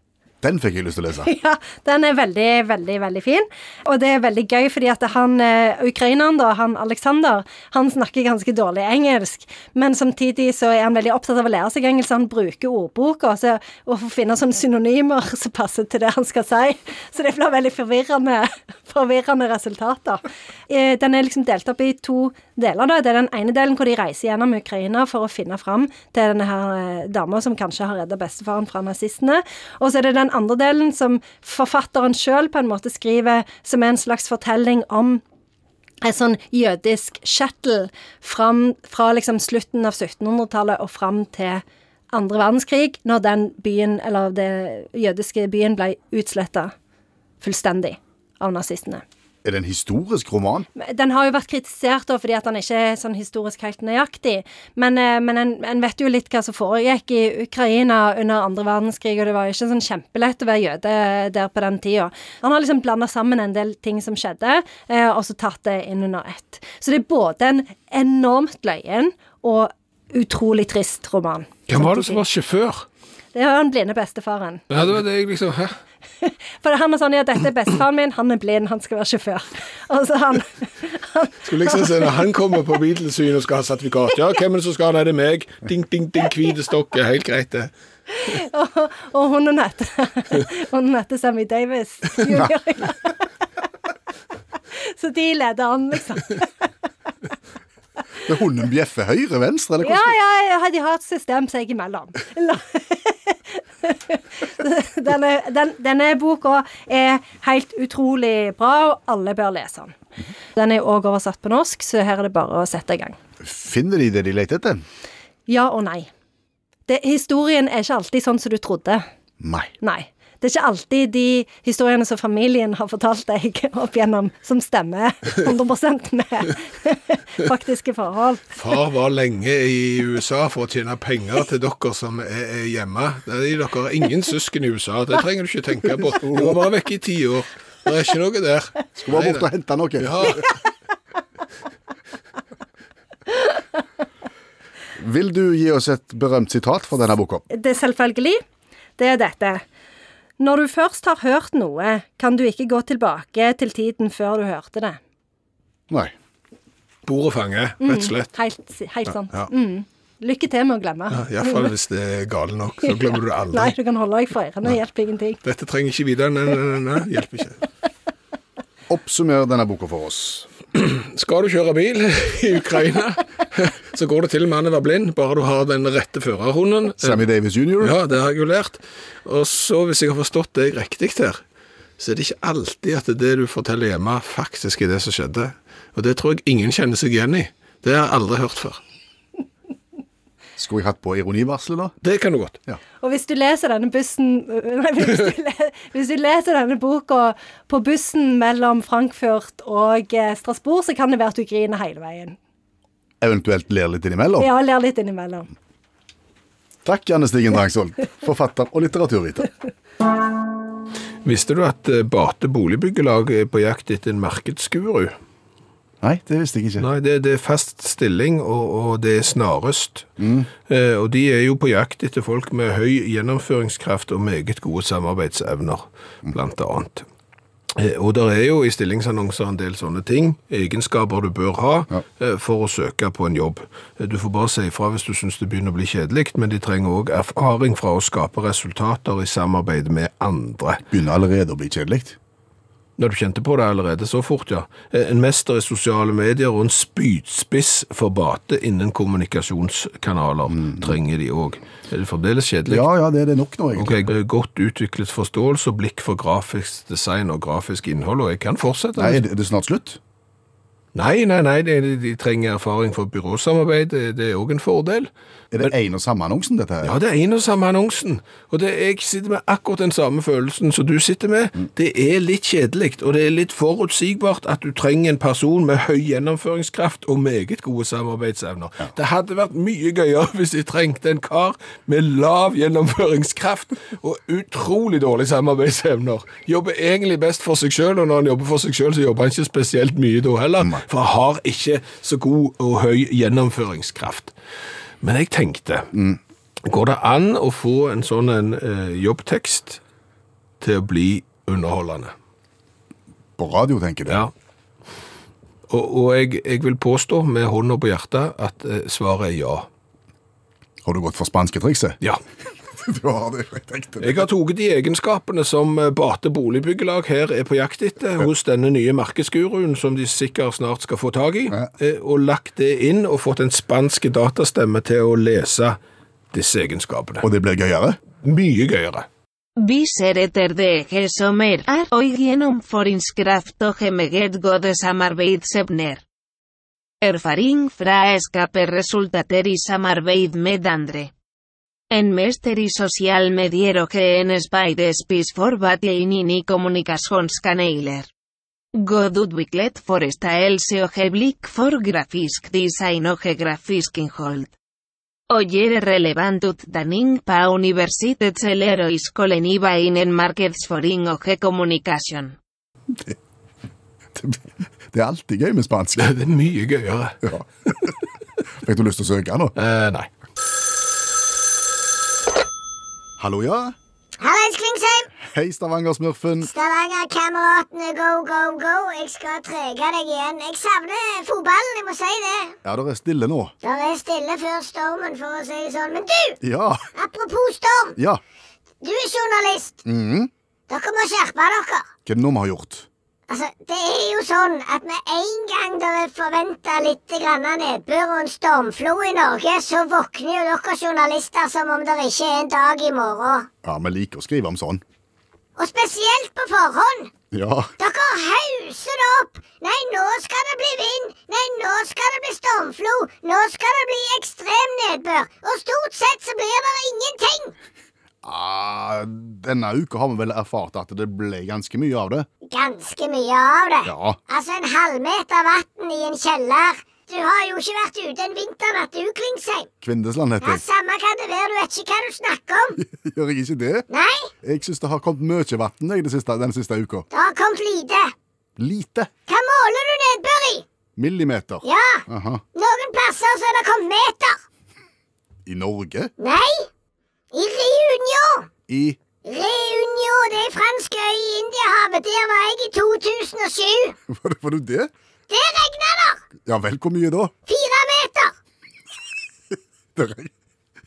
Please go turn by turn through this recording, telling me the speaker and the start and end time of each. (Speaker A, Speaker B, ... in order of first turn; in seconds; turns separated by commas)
Speaker A: 0.4-1.3, Speaker B: 1.2-35.2, Speaker B: 36.0-46.7, Speaker B: 47.4-49.0, Speaker A: 49.4-50.7, Speaker B: 50.8-72.2, Speaker C: 71.7-72.8, Speaker B: 73.3-74.6, Speaker C: 74.7-75.8, Speaker B: 76.2-82.1, Speaker C: 81.4-87.7, Speaker B: 88.2-93.2, Speaker B: 94.8-96.5, Speaker A: 98.2-100.2, Speaker B: 99.8-110.0, Speaker B: 110.5-113.2, Speaker A: 113.4-114.8, Speaker B: 115.5-116.1, Speaker B: 116.9-119.0, Speaker A: 119.4-119.7, Speaker B: 119.8-128.5, Speaker C: 128.5-139.4, Speaker A: 136.2-136.6, Speaker A: 139.0-140.4, Speaker C: 140.0-140.5, Speaker A: 144.9-147.4, Speaker B: 147.5-148.4, Speaker B: 149.0-149.6, Speaker B: 150.4-155.0, Speaker C: 157.1-158.3, Speaker B: 157.8-161.7, Speaker C: 161.1-163.7, Speaker B: 163.5-165.4, Speaker C: 165.4-167.6, Speaker A: 168.9-170.5, Speaker C: 170.7-177.2, Speaker A: 177.0-178.0, Speaker C: 177.8-181.4, Speaker C: 182.0-188.8, Speaker A: 190.6-191.9, Speaker C: 192.0-192.6, Speaker B: 193.0-202.4, Speaker A: 203.2-204.5, Speaker B: 204.4-205.5, Speaker A: 206.8-209.5, Speaker C: 211.2-215.1, Speaker A: 216.0-216.9, Speaker C: 216.8-220.1, Speaker A: 220.2-220.5, Speaker C: 220.7-227.1, Speaker C: 227.7-240.8, Speaker A: 240.9-242.2, Speaker C: 243.0-252.8, Speaker A: 250.5-250.9, Speaker A: 252.7-254.0, Speaker C: 253.8-259.2, Speaker A: 258.9-260.0, Speaker C: 260.9-265.1, Speaker A: 265.5-267.0, Speaker C: 266.8-294.3, Speaker C: 295.0-295.9, Speaker A: 295.9-296.2, Speaker C: 296.6-299.8, Speaker C: 300.6-302.1, Speaker A: 303.4-304.2, Speaker C: 305.7-309.7, Speaker A: 310.8-312.0, Speaker A: 312.8-314.3, Speaker C: 314.0-325.8, Speaker C: 326.3-327.2, Speaker A: 327.2-328.0, Speaker C: 328.2-329.1, Speaker D: 329.6-336.0, Speaker D: 337.0-341.1, Speaker D: 341.9-348.1, Speaker D: 348.7-354.5, Speaker D: 355.3-362.4, Speaker A: 364.1-366.1, Speaker C: 366.0-367.3, Speaker A: 367.2-367.9, Speaker A: 368.6-369.5, Speaker C: 369.6-370.1, Speaker A: 373.2-373.7, Speaker E: 374.2-375.1, Speaker A: 375.2-376.5, Speaker E: 376.4-382.6, Speaker A: 382.6-383.5, Speaker E: 383.6-386.4, Speaker A: 386.4-386.8, Speaker E: 386.9-388.0, Speaker E: 388.8-389.8, Speaker A: 389.8-390.3, Speaker E: 390.7-391.9, Speaker A: 392.1-392.9, Speaker E: 393.3-403.5, Speaker A: 403.6-404.8, Speaker E: 405.6-407.1, Speaker A: 407.3-407.7, Speaker E: 407.8-417.5, Speaker A: 418.2-422.3, Speaker E: 422.5-429.7, Speaker A: 423.9-424.2, Speaker A: 429.8-430.6, Speaker E: 430.4-432.8, Speaker A: 432.8-433.9, Speaker E: 433.9-434.3, Speaker A: 434.4-437.1, Speaker E: 437.1-438.1, Speaker A: 438.6-439.1, Speaker E: 439.3-440.6, Speaker A: 440.9-442.4, Speaker E: 441.6-442.0, Speaker E: 442.5-444.4, Speaker A: 445.4-446.1, Speaker E: 446.2-446.7, Speaker E: 447.3-448.5, Speaker A: 448.7-449.0, Speaker E: 449.2-453.9, Speaker A: 454.1-454.9, Speaker E: 455.3-456.2, Speaker A: 456.4-457.3, Speaker E: 457.5-458.3, Speaker A: 459.9-460.3